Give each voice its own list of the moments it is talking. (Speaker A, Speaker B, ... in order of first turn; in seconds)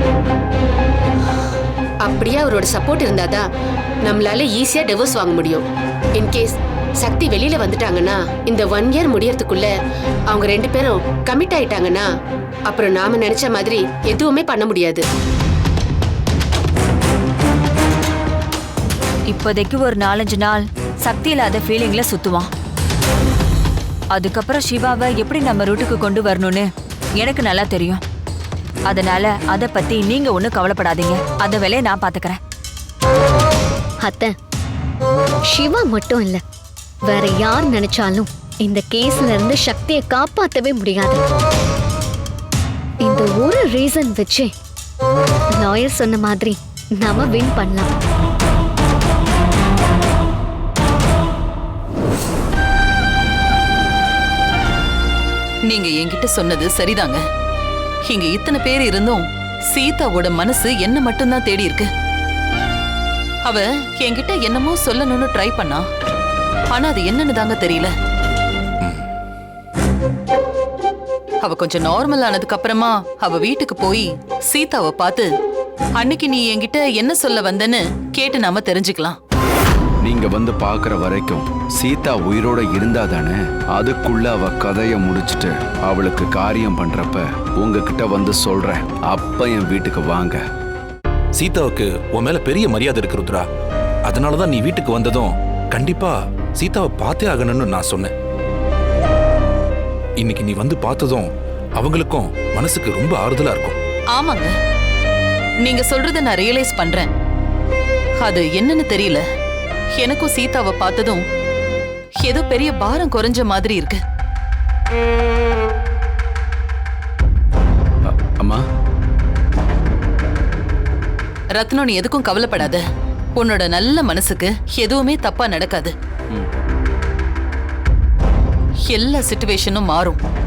Speaker A: 2.0-3.4, 4.0-5.6, 6.2-9.7, 10.3-12.1, 12.7-15.0
Speaker B: 19.3-22.5, 24.1-28.0, 28.9-32.4
Speaker C: 34.0-34.3, 35.5-36.4, 37.1-41.2, 43.0-44.5, 45.6-47.9
Speaker D: 55.7-57.2, 58.1-61.9, 63.4-65.8, 66.7-67.9, 71.4-75.3, 76.0-79.2, 104.1-104.5, 105.6-107.1, 108.2-109.2, 110.0-111.2, 112.2-114.0, 121.6-122.8, 123.3-125.9, 128.9-130.2
Speaker E: 80.0-90.4, 118.0-118.6
Speaker F: 91.4-93.5, 94.0-98.1, 100.2-103.8